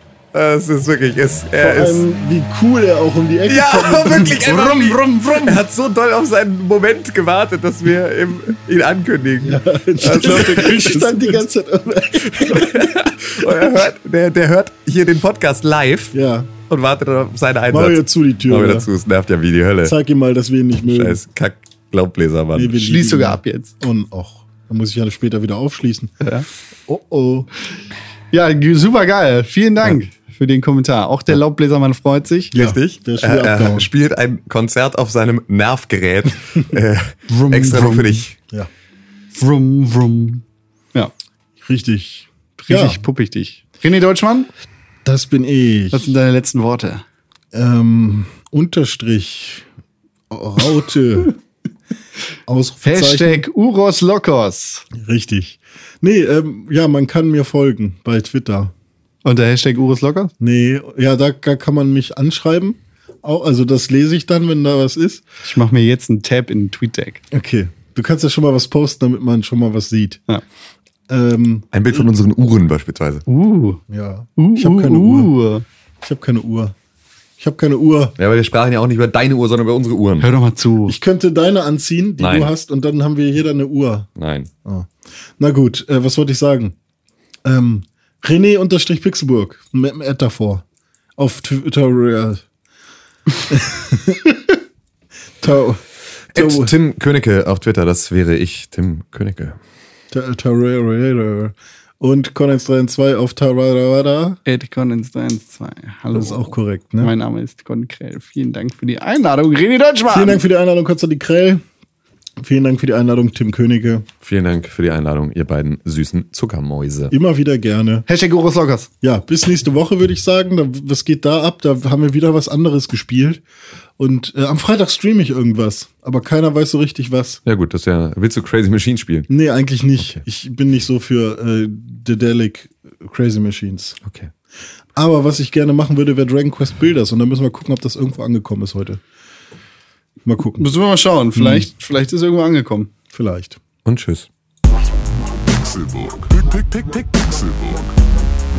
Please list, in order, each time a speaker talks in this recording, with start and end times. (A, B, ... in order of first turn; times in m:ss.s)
0:00.3-0:02.0 A
0:01.6-0:04.4 B
0:03.5-0:11.1 A
0:04.2-0:05.6 C
0:09.4-0:13.5 B
0:10.0-0:11.4 C
0:12.2-0:16.1 A
0:16.1-0:16.5 B
0:16.7-0:20.0 A
0:17.7-0:18.9 B
0:19.8-0:21.2 B
0:20.8-0:22.8 A
0:22.6-0:26.1 B
0:22.8-0:23.8 C
0:26.2-0:26.5 C
0:26.9-0:27.5 B
0:28.3-0:32.5 C
0:32.5-0:33.9 B
0:32.5-0:38.4 A
0:37.3-0:38.2 C
0:39.3-0:41.1 C
0:41.6-0:43.0 B
0:42.6-0:44.5 C
0:45.0-0:46.1 B
0:45.9-0:47.0 C
0:47.5-0:49.6 B
0:50.3-0:51.4 B
0:52.5-0:53.4 B
0:52.8-0:54.8 C
0:54.9-0:58.7 B
0:59.2-1:00.3 C
1:00.4-1:05.2 B
1:05.4-1:07.2 C
1:07.3-1:10.2 B
1:11.1-1:11.7 B
1:11.7-1:13.2 A
1:13.3-1:13.8 C
1:13.9-1:15.3 B
1:14.4-1:15.6 C
1:16.0-1:16.8 B
1:17.4-1:18.2 B
1:18.2-1:20.3 A
1:20.2-1:21.0 C
1:20.9-1:24.1 B
1:22.2-1:22.5 A
1:24.2-1:24.5 A
1:24.6-1:26.8 B
1:27.4-1:30.6 B
1:31.2-1:32.4 B
1:33.5-1:34.6 B
1:35.4-1:35.8 B
1:36.3-1:39.6 A
1:36.4-1:36.7 B
1:40.1-1:44.4 B
1:44.5-1:50.4 C
1:46.1-1:47.1 B
1:50.1-1:51.6 B
1:52.4-1:54.1 B
1:54.2-1:57.1 A
1:57.1-1:58.0 B
1:58.1-1:58.9 C
1:59.0-2:03.4 B
2:04.0-2:07.4 B
2:07.5-2:09.3 A
2:09.3-2:14.0 B
2:14.0-2:14.3 A
2:15.0-2:19.0 B
2:20.2-2:20.7 B
2:20.6-2:22.9 C
2:21.4-2:21.7 B
2:23.1-2:23.6 B
2:23.8-2:24.3 A
2:25.2-2:28.1 D